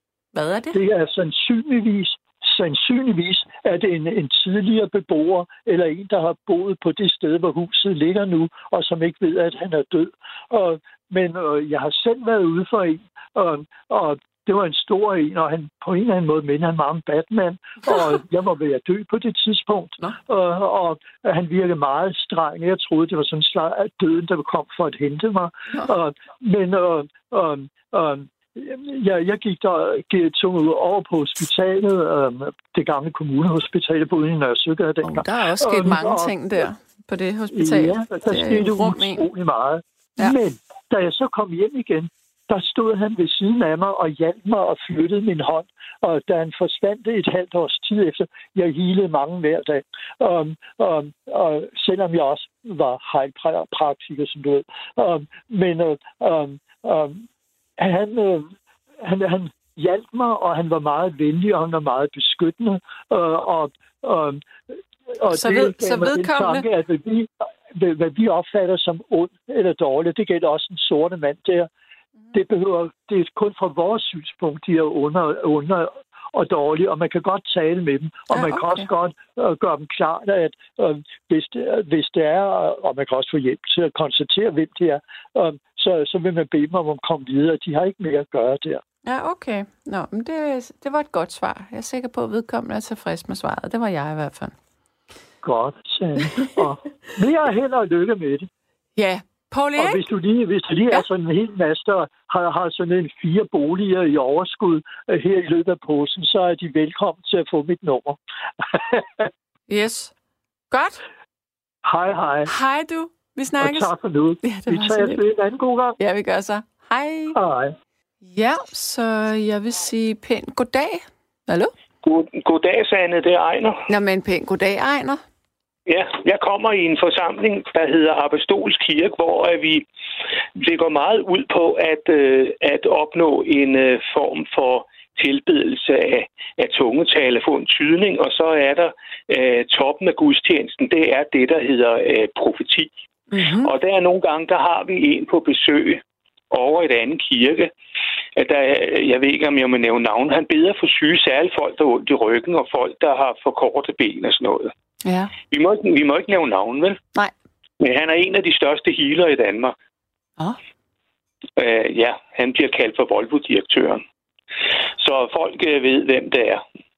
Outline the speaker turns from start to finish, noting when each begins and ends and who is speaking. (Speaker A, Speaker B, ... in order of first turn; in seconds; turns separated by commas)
Speaker A: 0.3-0.8, Speaker B: 0.7-36.4, Speaker A: 35.0-39.2, Speaker B: 37.5-64.5, Speaker B: 65.2-71.7, Speaker A: 65.3-66.6, Speaker B: 72.3-88.8, Speaker A: 78.3-78.9, Speaker A: 89.0-94.5, Speaker B: 95.4-98.5, Speaker A: 99.0-100.0, Speaker B: 99.8-109.3, Speaker A: 109.7-110.1, Speaker A: 110.7-111.0, Speaker B: 111.8-112.5, Speaker A: 112.5-115.2, Speaker B: 113.6-116.0, Speaker A: 116.0-117.4, Speaker B: 117.3-117.7, Speaker A: 118.2-121.7, Speaker C: 122.0-123.8, Speaker A: 123.9-125.2, Speaker C: 125.9-129.8, Speaker C: 130.6-142.9, Speaker A: 143.3-143.7, Speaker C: 143.6-147.7, Speaker C: 148.3-154.7, Speaker A: 155.0-155.3, Speaker C: 155.5-157.0, Speaker C: 157.8-159.7, Speaker C: 161.6-164.0, Speaker C: 165.0-166.6